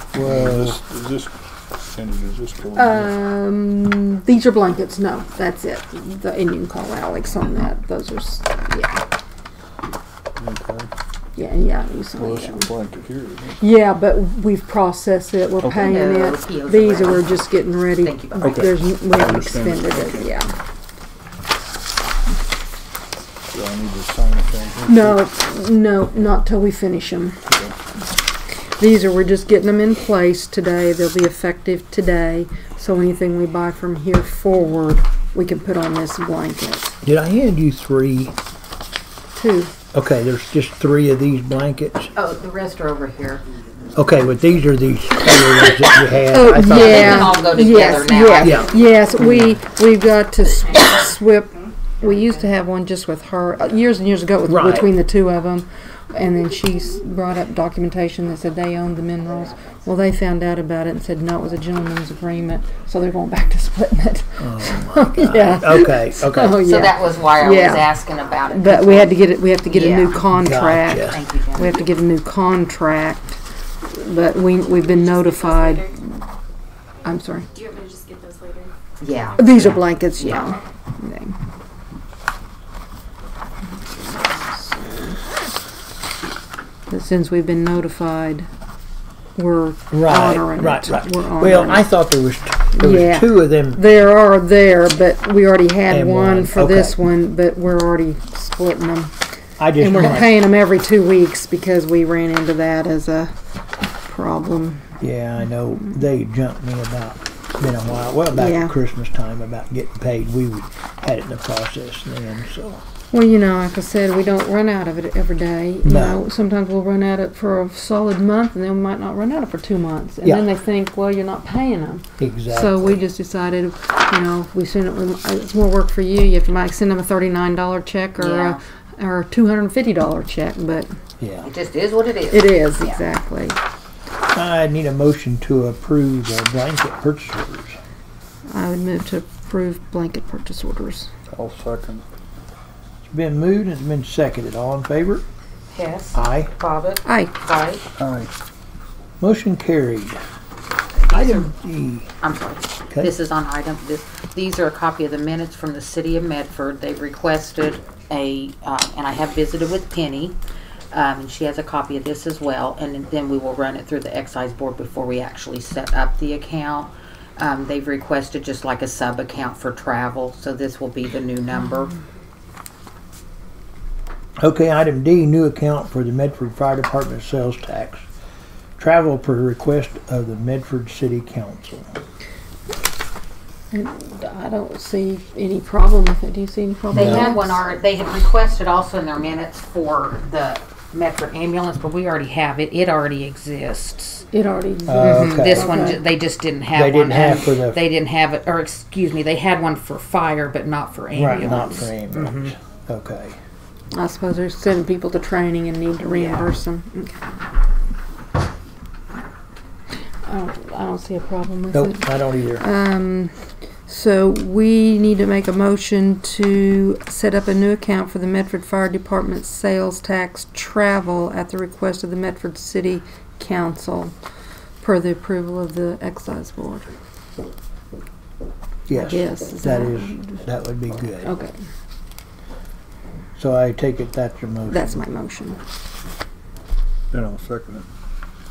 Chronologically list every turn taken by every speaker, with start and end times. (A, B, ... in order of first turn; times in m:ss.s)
0:00.2-0:00.8 A
0:00.2-0:01.3 B
0:01.9-0:03.1 B
0:02.8-0:09.0 C
0:10.4-0:10.9 B
0:11.4-0:12.7 C
0:12.2-0:13.6 B
0:13.6-0:20.5 C
0:15.6-0:17.4 D
0:18.0-0:18.7 D
0:18.4-0:20.3 B
0:23.5-0:25.2 B
0:24.9-0:27.4 C
0:27.5-0:27.8 B
0:28.8-0:37.0 C
0:37.0-0:38.4 A
0:39.4-0:39.7 C
0:39.9-0:42.1 A
0:42.2-0:43.4 D
0:44.0-0:47.5 A
0:46.3-1:07.9 C
0:46.7-0:48.7 D
0:48.4-0:49.6 A
0:54.5-0:54.9 A
1:04.4-1:06.6 A
1:06.6-1:09.1 D
1:08.5-1:16.1 C
1:09.7-1:10.2 D
1:10.3-1:11.2 A
1:11.1-1:11.9 D
1:15.1-1:15.9 E
1:17.0-1:17.5 C
1:17.6-1:18.7 E
1:19.0-1:20.5 D
1:19.4-1:21.4 C
1:23.7-1:25.3 C
1:26.9-1:28.5 C
1:29.4-1:31.9 C
1:29.9-1:33.8 A
1:32.8-1:39.1 C
1:35.9-1:37.0 A
1:39.6-1:40.5 A
1:39.8-1:43.3 C
1:44.0-1:44.9 C
1:45.0-1:52.8 A
1:48.4-1:48.8 C
1:53.1-2:10.9 C
1:55.8-1:56.2 A
2:02.2-2:03.0 A
2:08.2-2:08.6 D
2:11.2-2:11.5 A
2:11.4-2:13.0 D
2:12.3-2:13.6 C
2:14.3-2:17.8 A
2:18.5-2:21.1 C
2:21.3-2:22.0 B
2:23.0-2:25.2 A
2:25.7-2:27.8 D
2:26.1-2:26.5 A
2:27.1-2:27.3 C
2:28.0-2:28.3 B
2:29.2-2:30.2 A
2:31.0-2:31.5 D
2:31.1-2:32.1 A
2:32.2-2:40.4 D
2:40.9-2:52.0 D
2:54.4-2:58.1 A
2:58.8-3:01.9 A
3:03.7-3:07.6 C
3:06.9-3:07.4 A
3:06.9-3:14.2 D
3:14.3-3:16.0 C
3:14.9-3:15.8 A
3:15.0-3:22.5 D
3:16.7-3:17.8 A
3:21.2-3:23.4 A
3:23.9-3:27.4 C
3:26.1-3:26.5 D
3:30.3-3:33.3 C
3:31.7-3:32.6 A
3:33.9-3:44.2 C
3:44.8-3:46.9 C
3:48.9-3:51.3 A
3:48.9-3:50.4 C
3:51.2-3:51.5 C
3:53.4-3:55.0 A
3:54.7-3:55.6 C
3:57.1-3:57.9 B